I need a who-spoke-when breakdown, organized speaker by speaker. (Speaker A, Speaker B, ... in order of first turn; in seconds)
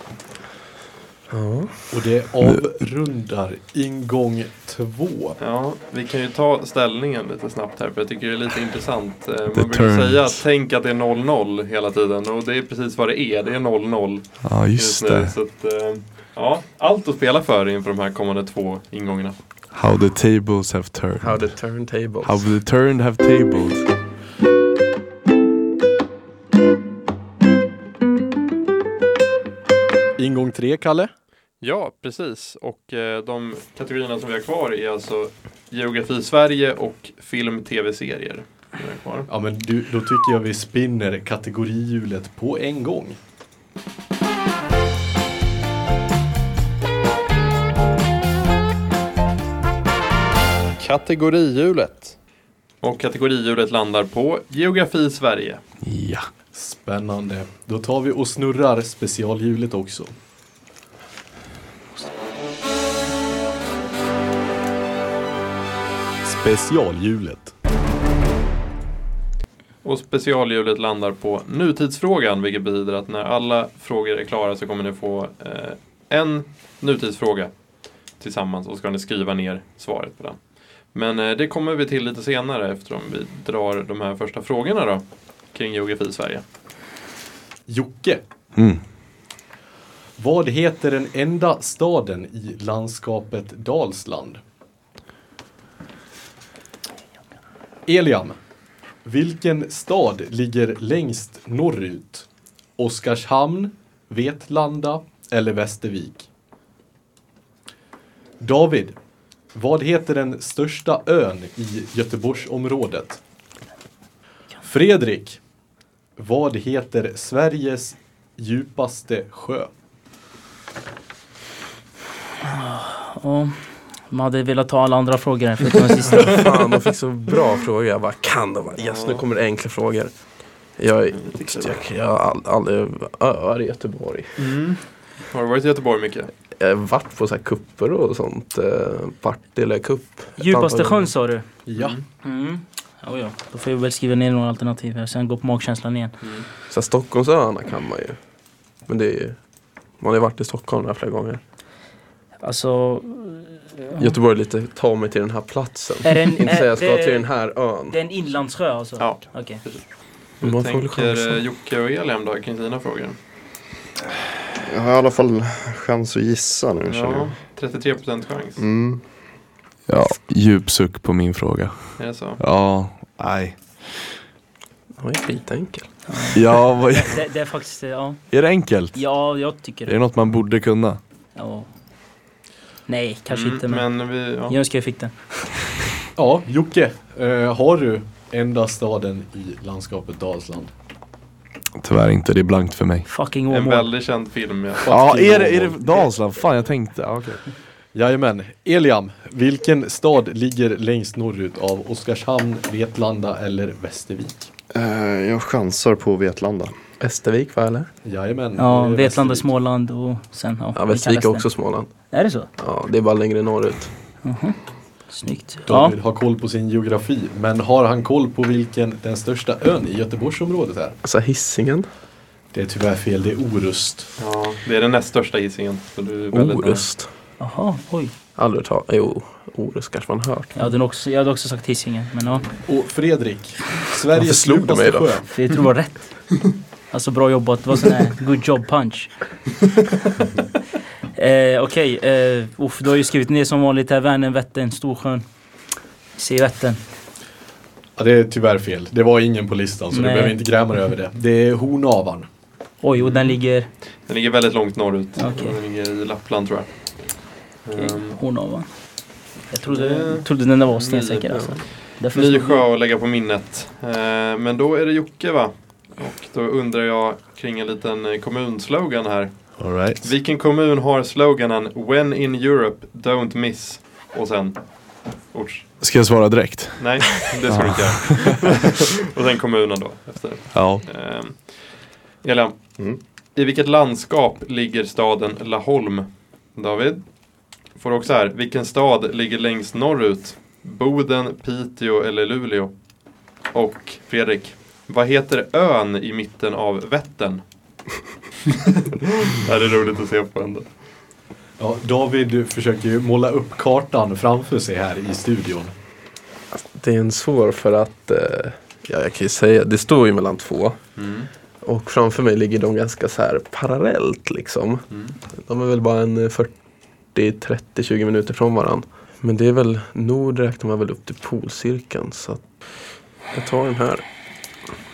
Speaker A: 1.3-1.8, 21.2-22.5, 126.1-130.1, 130.8-134.3, 136.6-141.1, 146.7-148.2, 148.9-149.4, 150.0-151.4, 154.0-158.0, 160.4-161.4, 175.0-175.9, 207.0-207.9, 210.8-211.9, 212.6-213.9, 221.0-221.9, 226.3-227.1, 228.4-230.5, 234.1-235.1, 261.3-261.6, 306.6-310.8, 311.6-314.9, 315.4-316.5, 317.1-322.4, 323.3-324.1
Speaker B: 1.9-5.4, 30.2-31.1, 39.3-43.2, 56.5-60.1, 66.2-67.5, 87.7-88.2, 90.2-94.4, 97.9-98.4, 99.0-106.3, 108.4-109.0, 109.5-113.2, 114.6-115.4, 116.2-119.7, 141.7-142.0, 186.2-190.7, 194.8-196.1, 197.9-204.5, 208.0-209.5, 215.7-221.0, 222.5-224.1, 232.7-235.3, 248.0-252.3, 301.6-305.7
Speaker C: 5.4-19.4, 31.6-39.3, 50.8-52.2, 52.8-55.6, 69.8-77.5, 78.2-80.4, 80.9-86.4, 128.8-129.2, 131.2-131.7, 134.4-136.3, 141.8-142.1, 159.0-159.8, 160.4-163.2, 166.9-168.6, 172.0-172.4, 183.3-184.6, 193.5-194.9, 224.2-226.9, 253.0-253.4, 254.1-258.2, 259.6-261.3, 261.9-275.7, 276.8-281.7, 282.2-282.6, 283.4-287.0, 287.8-292.7, 293.5-297.4, 298.5-300.7, 311.0-311.3, 314.9-315.2
Speaker D: 9.5-10.4, 14.4-15.3, 19.7-21.5, 22.2-23.9, 55.8-56.3, 88.6-88.8, 169.9-174.0, 176.3-177.2, 178.3-179.1, 179.9-181.0, 191.8-193.1, 194.9-197.4, 269.6-270.1, 275.8-278.5, 280.5-280.9
Speaker E: 122.4-126.6, 140.4-141.5, 142.2-146.1, 152.4-154.2, 156.0-157.3, 157.9-159.6, 176.1-178.3, 178.9-180.1, 181.3-181.7, 182.9-183.9, 184.5-185.6, 193.1-193.9, 208.6-211.5, 212.1-212.5, 214.2-214.6, 215.1-215.9, 227.4-228.1, 230.6-232.5, 235.3-236.1, 236.9-239.1, 241.2-245.2, 246.2-246.8, 249.9-250.4, 252.8-253.7, 255.2-255.6, 257.8-258.7, 259.5-262.6
Speaker F: 164.6-167.3, 168.6-169.0, 204.7-206.8